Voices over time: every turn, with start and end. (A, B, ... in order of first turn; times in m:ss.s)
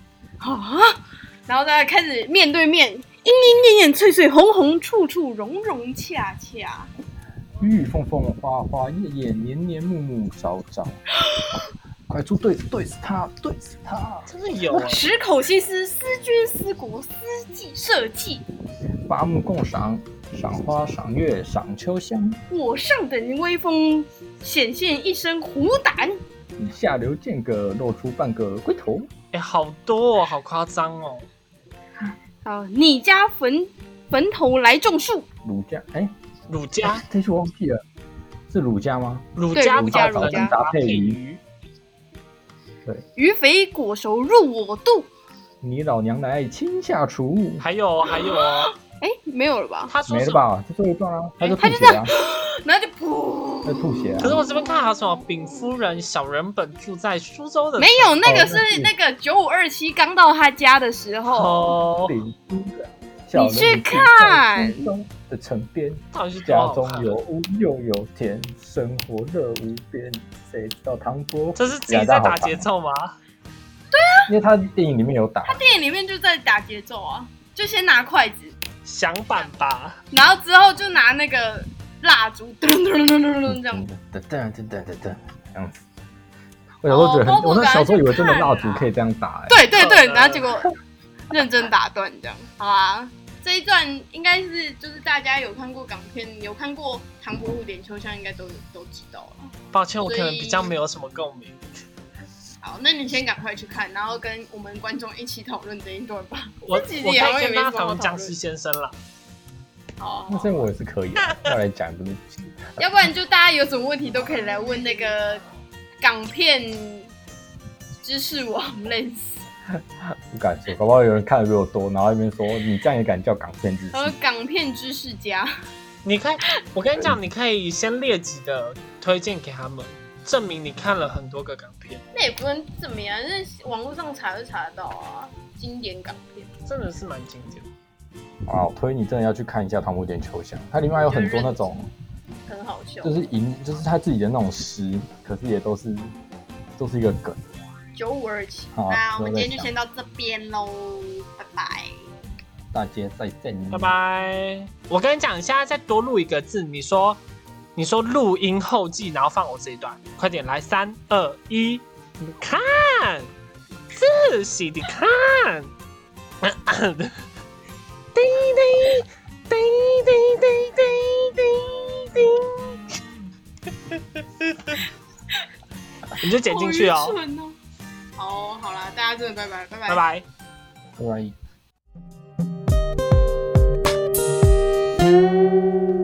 0:00.4-0:06.9 A
0:07.6-0:11.0 B
0:11.2-0:11.6 A
0:12.1-0:14.3 B
0:14.3-0:15.1 C
0:14.8-0:18.4 A
0:19.0-0:22.4 B
0:22.5-0:26.2 A
0:26.6-0:29.1 B
0:29.3-0:31.3 C
0:32.4-0:35.3 A
0:35.4-0:36.2 B
0:36.5-0:37.0 C
0:36.8-0:37.8 B
0:38.5-0:41.2 B
0:39.4-0:41.4 C
0:39.5-0:40.6 A
0:43.2-0:45.1 A
0:45.6-0:47.7 B
0:47.6-0:48.7 C
0:48.2-0:49.9 A
0:49.9-0:50.4 C
0:50.1-0:52.1 B
0:51.6-0:54.0 A
0:53.6-0:54.4 B
0:54.2-0:58.2 C
0:57.8-1:01.8 A
0:58.2-0:58.9 B
1:01.3-1:02.2 C
1:02.1-1:12.7 B
1:03.3-1:04.9 A
1:06.1-1:07.2 C
1:11.6-1:13.2 C
1:13.9-1:14.3 A
1:14.3-1:15.6 B
1:15.5-1:18.6 A
1:18.8-1:20.0 C
1:20.1-1:23.9 A
1:23.5-1:25.8 B
1:26.8-1:29.7 B
1:26.9-1:28.9 A
1:29.5-1:30.7 A
1:29.8-1:30.5 C
1:31.3-1:40.8 A
1:39.7-1:41.9 C
1:42.6-1:48.4 A
1:46.6-1:49.0 C
1:50.0-1:50.7 A
1:50.3-1:52.8 B
1:52.8-1:55.4 A
1:56.0-1:57.1 A
1:58.0-1:59.5 A
1:59.8-2:04.2 B
2:03.9-2:05.5 A
2:06.0-2:12.0 C
2:12.1-2:16.5 A
2:16.6-2:17.7 C
2:18.4-2:21.9 B
2:21.0-2:21.7 A
2:22.5-2:23.2 A
2:23.0-2:26.2 B
2:26.8-2:27.4 B
2:28.0-2:32.0 A
2:28.8-2:29.7 B
2:32.7-2:33.9 B
2:33.7-2:37.2 C
2:37.8-2:43.3 C
2:43.9-2:45.7 C
2:46.4-2:47.2 C
2:48.2-2:52.8 C
2:53.9-2:54.8 C
2:56.2-2:57.2 C
2:56.4-2:57.6 A
2:58.2-3:00.0 A
2:59.9-3:00.2 C
3:01.0-3:01.4 B